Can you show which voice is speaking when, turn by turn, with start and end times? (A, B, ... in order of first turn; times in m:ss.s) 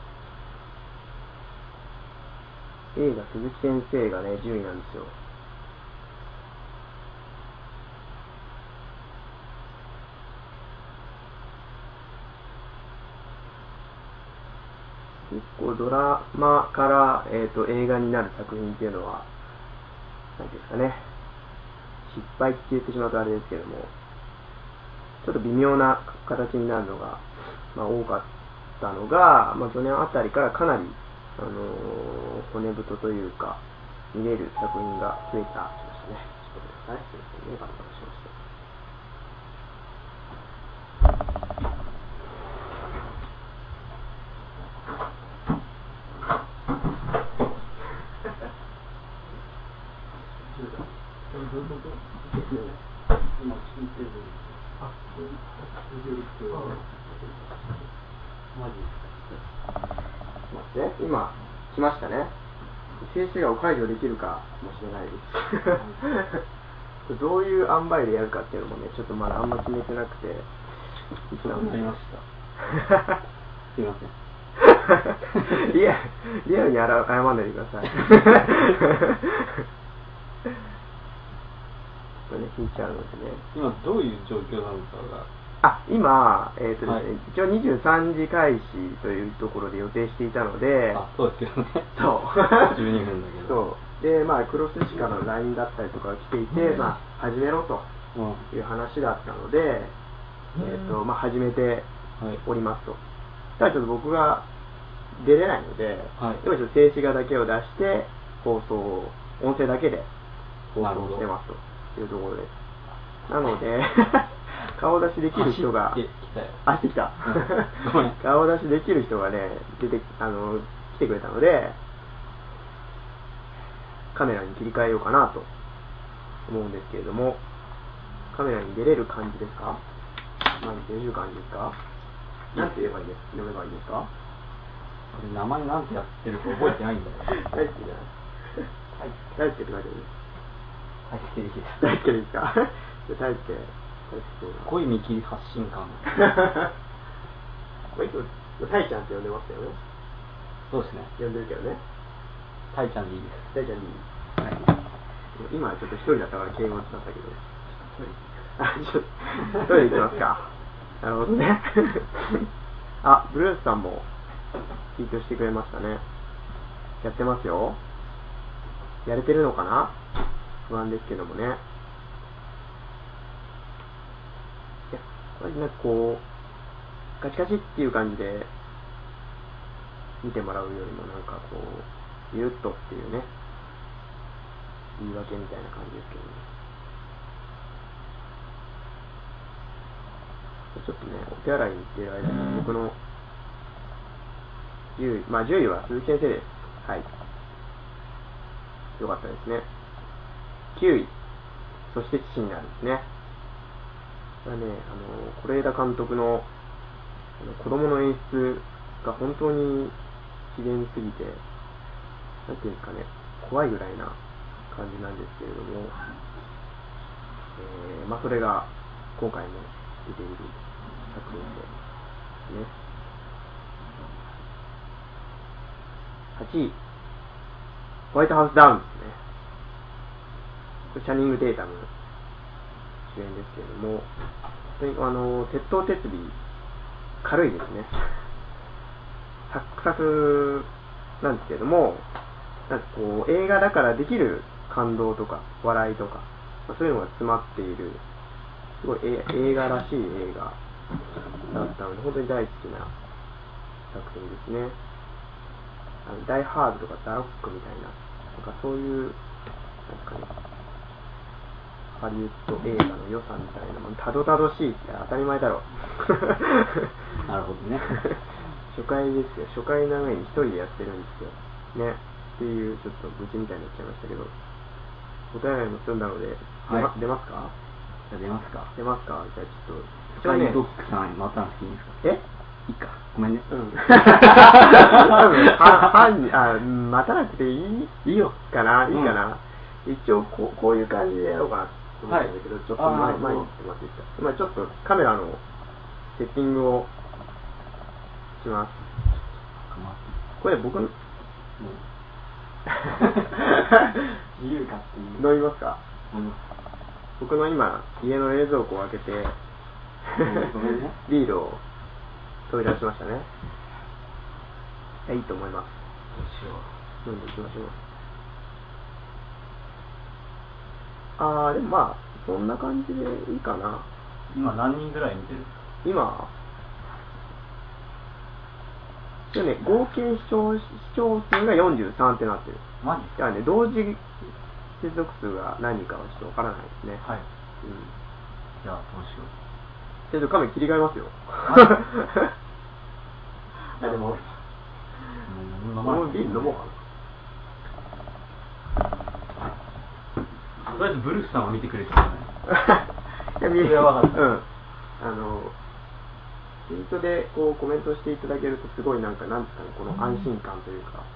0:02.9-0:05.1 A
0:15.2-0:19.2 A
0:20.4-0:21.0 A
0:22.0-0:23.9 A
0:25.2-0:28.2 A
0:28.8-0:33.6 A
0:34.1-0:38.3 A
0:53.3-0:54.6 B
0:55.9-0:56.8 B
0:58.5-0:59.4 B
1:00.5-1:02.3 A
1:03.0-1:06.4 A
1:07.0-1:10.5 A
1:11.3-1:11.8 A
1:11.4-1:12.2 B
1:12.7-1:13.2 A
1:13.7-1:14.1 B
1:14.6-1:19.6 A
1:22.3-1:23.4 A
1:23.5-1:25.3 B
1:25.6-1:31.0 A
1:30.9-1:33.6 B
1:31.9-1:32.8 A
1:33.4-1:37.9 A
1:38.1-1:38.5 B
1:38.5-1:39.9 A
1:40.6-1:41.9 A
1:42.4-1:43.0 A
1:43.6-1:44.4 A
1:45.1-1:50.1 A
1:46.2-1:46.4 B
1:50.8-1:51.2 B
1:50.8-1:52.5 A
1:53.3-1:56.0 A
1:55.3-1:56.6 B
1:56.6-2:01.8 A
1:57.2-1:58.2 B
2:04.1-2:05.5 A
2:06.5-2:07.4 A
2:08.3-2:09.8 A
2:10.6-2:11.8 A
2:12.5-2:12.9 B
2:12.5-2:14.1 A
2:15.1-2:17.5 B
2:17.3-2:18.7 A
2:19.3-2:20.1 A
2:21.1-2:21.9 B
2:21.8-2:24.7 A
2:24.6-2:26.2 B
2:26.2-2:26.7 A
2:27.9-2:29.8 A
2:30.7-2:31.1 B
2:31.2-2:31.8 A
2:32.7-2:33.5 B
2:33.5-2:34.0 A
2:34.4-2:34.7 B
2:35.3-2:37.4 A
2:37.7-2:38.5 B
2:38.6-2:42.5 A
2:43.0-2:44.0 A
2:45.0-2:46.0 A
2:47.0-2:47.8 A
2:49.0-2:49.9 A
2:50.7-2:51.6 A
2:54.9-2:56.2 A
2:57.2-2:58.5 A
3:00.2-3:03.3 A
3:05.0-3:06.4 A
3:10.7-3:13.0 A
3:15.0-3:17.1 A
3:19.0-3:19.6 A
3:20.7-3:21.1 A
3:21.9-3:23.0 A
3:24.4-3:26.4 A
3:27.4-3:29.9 A
3:30.5-3:31.4 A
3:32.5-3:34.2 A
3:34.7-3:36.0 A
3:37.6-3:41.7 A
3:46.4-3:46.8 A
3:48.1-3:49.2 A
3:50.9-3:51.9 A
3:53.1-3:54.1 A
3:54.8-3:56.3 A
3:57.2-3:58.2 A
3:59.5-4:00.7 A
4:01.2-4:02.0 A
4:02.7-4:08.0 A
4:08.8-4:10.6 A
4:11.5-4:12.9 A
4:13.9-4:14.8 A
4:16.0-4:19.2 A
4:19.8-4:20.3 A
4:21.9-4:27.1 A
4:27.2-4:28.0 B
4:27.9-4:28.2 A
4:28.7-4:34.3 A
4:35.3-4:37.5 A
4:38.1-4:38.7 B
4:38.8-4:40.6 A
4:40.1-4:42.0 B
4:42.7-4:45.9 B
4:43.5-4:55.4 A
4:48.0-4:48.3 B
4:52.0-4:53.5 B
4:56.1-4:56.9 A
4:58.4-4:58.8 A
4:59.6-5:00.1 B
5:00.4-5:00.9 A
5:01.6-5:01.8 B
5:02.8-5:04.0 A
5:02.9-5:03.4 B
5:04.4-5:05.2 B
5:05.2-5:05.8 A
5:06.1-5:06.4 B
5:07.2-5:09.4 A
5:10.0-5:10.5 A
5:10.2-5:11.0 B
5:11.0-5:11.6 A
5:12.5-5:13.3 A
5:15.1-5:15.8 A
5:16.1-5:16.7 B
5:17.0-5:17.8 A
5:21.2-5:23.8 A
5:24.3-5:25.5 B
5:25.8-5:26.3 A
5:29.3-5:32.6 A
5:32.8-5:33.2 B
5:33.2-5:34.0 A
5:34.8-5:37.0 A
5:37.6-5:37.9 A
5:38.6-5:39.3 B
5:40.1-5:42.3 A
5:41.5-5:41.7 B
5:43.7-5:44.4 A
5:45.2-5:46.5 B
5:45.8-5:46.8 A
5:50.6-5:52.3 B
5:52.5-5:52.8 A
5:53.4-5:54.4 A
5:53.5-5:54.2 B
5:55.0-5:55.5 A
5:56.7-6:01.1 A